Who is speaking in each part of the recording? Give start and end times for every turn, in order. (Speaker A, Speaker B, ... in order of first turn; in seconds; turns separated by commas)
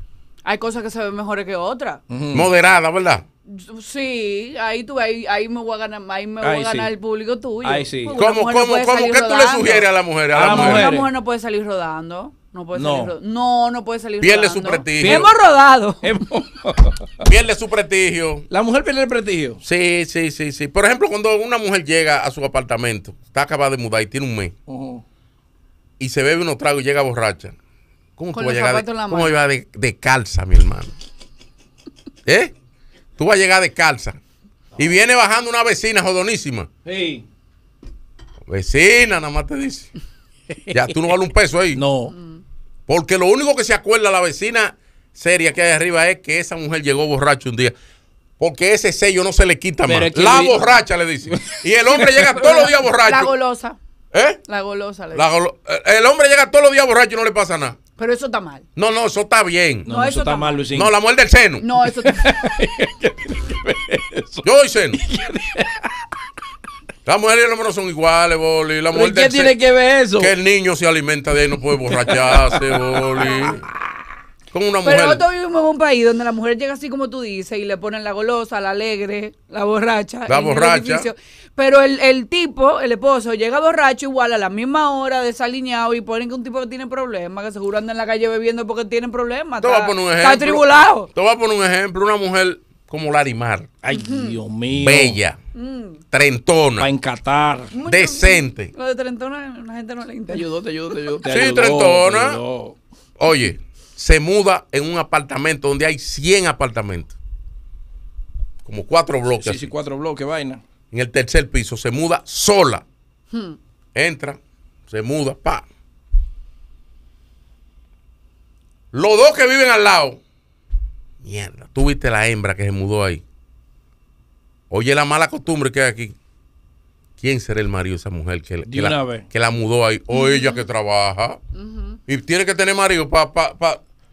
Speaker A: 0.5-2.0, Speaker B: 2.1-2.5, Speaker C: 2.3-3.2, Speaker A: 3.5-9.9, Speaker B: 6.4-6.9, Speaker B: 7.6-8.2, Speaker C: 8.2-10.9, Speaker B: 10.3-11.1, Speaker A: 10.4-16.1, Speaker B: 12.8-13.1, Speaker C: 14.2-15.3, Speaker B: 15.0-15.3, Speaker B: 16.0-17.2, Speaker C: 17.2-18.5, Speaker B: 18.5-19.6, Speaker C: 19.6-24.5, Speaker B: 24.7-25.0, Speaker C: 26.0-27.6, Speaker C: 28.2-30.9, Speaker A: 28.3-29.3, Speaker C: 32.3-32.5, Speaker C: 33.2-34.2, Speaker C: 34.8-36.7, Speaker B: 36.9-37.2, Speaker C: 38.5-39.9, Speaker C: 40.7-41.8, Speaker B: 41.7-42.1, Speaker A: 42.1-42.4, Speaker C: 42.9-47.7, Speaker C: 48.4-53.3, Speaker B: 49.9-51.6, Speaker A: 52.3-53.8, Speaker C: 54.1-54.4, Speaker A: 54.5-55.3, Speaker C: 55.1-57.8, Speaker A: 58.0-58.6, Speaker C: 58.8-59.9, Speaker B: 59.9-60.9, Speaker A: 59.9-60.7, Speaker C: 60.7-61.6, Speaker A: 61.6-62.4, Speaker B: 62.0-65.9, Speaker C: 64.4-65.0, Speaker C: 67.1-69.5, Speaker B: 68.9-70.3, Speaker C: 70.2-73.6, Speaker B: 71.9-73.5, Speaker C: 74.5-75.2, Speaker A: 74.8-91.1, Speaker C: 80.3-81.1, Speaker C: 89.6-93.7, Speaker B: 93.8-95.2, Speaker A: 93.9-94.4, Speaker C: 94.7-95.4, Speaker A: 95.5-96.0, Speaker C: 96.1-96.9, Speaker B: 96.8-97.7, Speaker A: 97.7-100.5, Speaker C: 97.8-98.7, Speaker B: 100.3-102.8, Speaker C: 101.3-102.4, Speaker C: 103.2-107.1, Speaker C: 108.6-109.7, Speaker B: 109.4-110.6, Speaker C: 110.9-112.8, Speaker C: 114.0-115.7, Speaker C: 118.9-120.2, Speaker C: 121.2-123.2, Speaker C: 124.7-126.2, Speaker C: 127.2-131.4, Speaker B: 128.7-129.2, Speaker A: 130.1-130.7, Speaker A: 131.6-132.0, Speaker C: 132.1-133.8